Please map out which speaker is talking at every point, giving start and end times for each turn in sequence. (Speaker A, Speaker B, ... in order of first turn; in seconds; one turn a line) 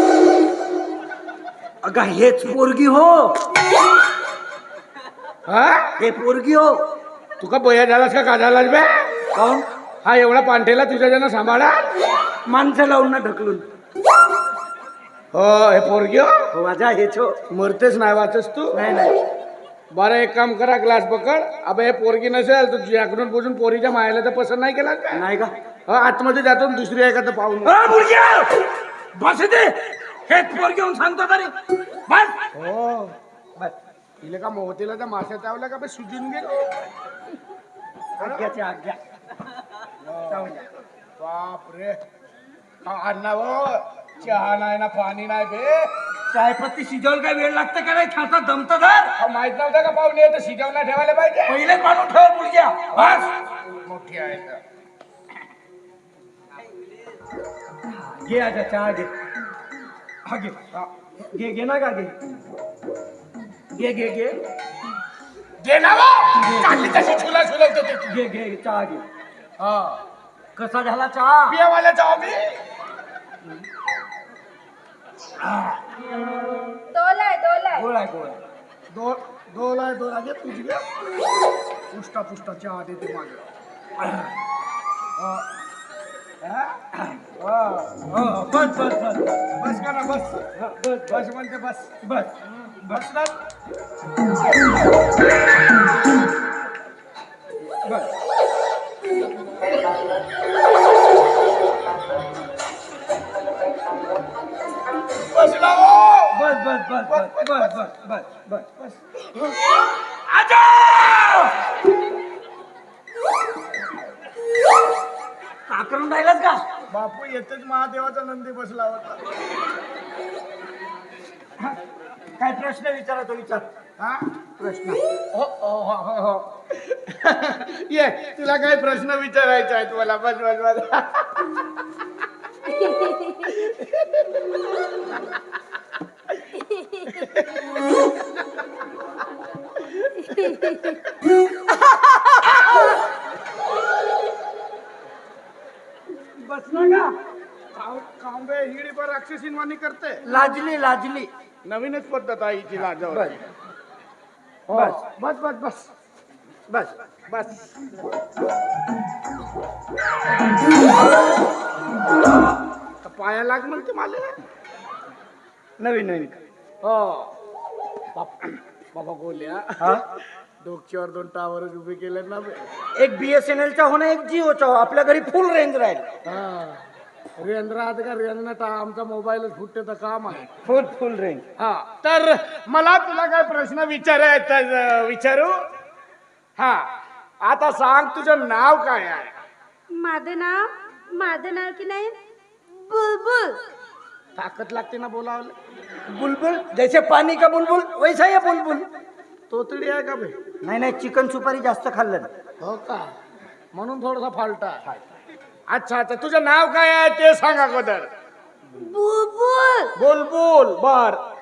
Speaker A: 1.8-3.4
Speaker B: 5.5-5.9
Speaker A: 6.0-6.8
Speaker B: 7.4-9.1
Speaker A: 9.3-9.7
Speaker B: 10.0-11.9
Speaker A: 12.4-13.7
Speaker B: 15.3-16.5
Speaker A: 16.5-17.4
Speaker B: 17.5-18.8
Speaker A: 18.7-19.2
Speaker B: 19.9-25.2
Speaker A: 25.1-25.5
Speaker B: 25.9-27.9
Speaker A: 27.6-32.5
Speaker B: 32.5-33.1
Speaker B: 34.2-36.8
Speaker A: 38.2-39.0
Speaker B: 38.2-38.5
Speaker B: 40.0-40.5
Speaker A: 40.3-40.7
Speaker B: 41.2-42.0
Speaker B: 42.9-45.9
Speaker A: 46.3-49.2
Speaker B: 49.2-51.6
Speaker A: 51.5-53.3
Speaker B: 53.7-54.6
Speaker A: 57.9-59.1
Speaker A: 60.3-62.1
Speaker A: 63.7-64.4
Speaker B: 65.6-68.1
Speaker A: 66.4-66.8
Speaker A: 68.0-69.0
Speaker B: 69.6-70.0
Speaker A: 70.5-71.6
Speaker B: 71.5-72.5
Speaker C: 76.9-77.9
Speaker A: 77.7-78.4
Speaker B: 78.9-80.8
Speaker B: 81.9-83.4
Speaker B: 85.2-85.5
Speaker B: 86.4-86.7
Speaker A: 86.9-87.3
Speaker B: 87.4-88.0
Speaker A: 87.9-89.4
Speaker B: 89.5-90.5
Speaker A: 90.5-91.2
Speaker B: 91.1-91.9
Speaker A: 92.0-93.0
Speaker B: 92.8-93.3
Speaker A: 97.8-98.1
Speaker B: 105.2-106.5
Speaker A: 106.3-108.9
Speaker B: 107.0-107.8
Speaker A: 110.3-111.5
Speaker A: 115.7-116.6
Speaker B: 116.9-119.3
Speaker A: 122.4-123.7
Speaker B: 124.0-124.3
Speaker A: 124.6-125.0
Speaker B: 125.3-131.5
Speaker C: 132.7-133.6
Speaker B: 133.7-134.1
Speaker C: 136.5-137.3
Speaker B: 137.2-137.6
Speaker C: 140.0-143.0
Speaker A: 146.4-147.1
Speaker B: 147.8-150.2
Speaker A: 150.2-151.3
Speaker B: 151.6-153.4
Speaker A: 153.1-153.4
Speaker B: 154.7-155.9
Speaker A: 154.7-155.0
Speaker A: 156.7-156.9
Speaker B: 157.3-157.7
Speaker B: 163.0-164.4
Speaker A: 165.8-166.4
Speaker B: 166.8-167.3
Speaker B: 168.1-170.0
Speaker B: 170.6-172.6
Speaker A: 172.9-176.1
Speaker B: 176.2-176.8
Speaker B: 177.4-180.5
Speaker A: 180.6-181.4
Speaker B: 181.6-185.6
Speaker B: 186.6-186.9
Speaker B: 187.4-189.3
Speaker C: 189.9-192.2
Speaker C: 192.7-193.6
Speaker B: 194.3-195.6
Speaker A: 196.1-198.9
Speaker B: 199.5-200.3
Speaker A: 200.6-202.3
Speaker B: 202.6-203.1
Speaker B: 203.7-204.9
Speaker B: 205.7-208.1
Speaker C: 208.8-209.9
Speaker B: 209.9-211.2